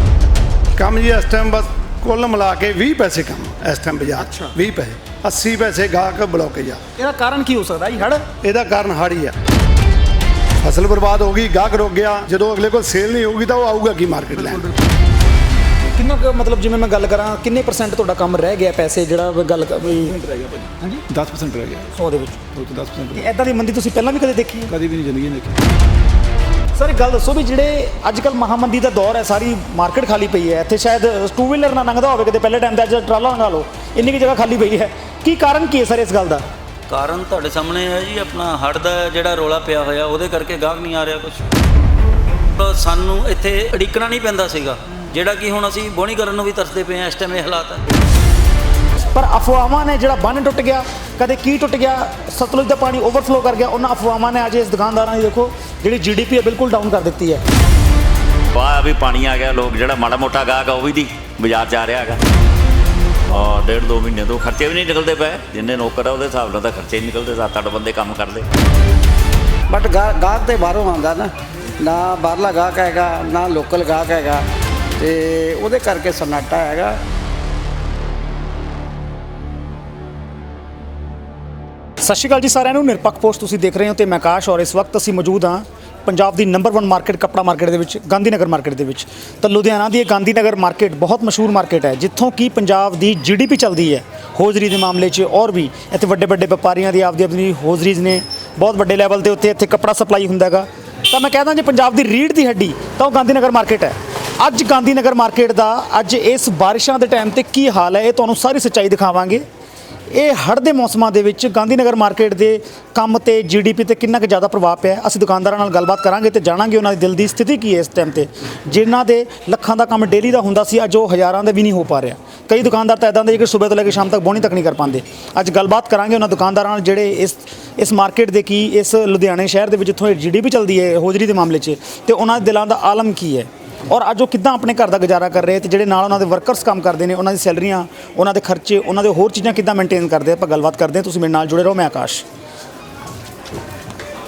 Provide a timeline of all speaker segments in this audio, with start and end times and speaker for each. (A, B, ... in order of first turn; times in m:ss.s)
0:00.8-0:06.8 A
0:04.2-0:04.5 B
0:07.0-0:08.2 B
0:08.4-0:09.4 A
0:10.6-0:14.6 A
0:14.4-0:14.6 B
0:16.0-0:20.2 B
0:20.0-0:21.9 C
0:20.8-0:21.0 B
0:21.9-0:22.4 B
0:22.5-0:23.3 C
0:23.1-0:24.7 B
0:24.7-0:25.6 C
0:26.8-0:36.4 B
0:36.9-0:41.4 D
0:42.6-0:47.8 D
0:49.1-0:57.4 B
0:58.5-1:02.2 E
1:03.3-1:08.5 E
1:09.7-1:14.4 F
1:15.0-1:17.0 F
1:22.0-1:49.4 B
1:50.1-2:22.2 B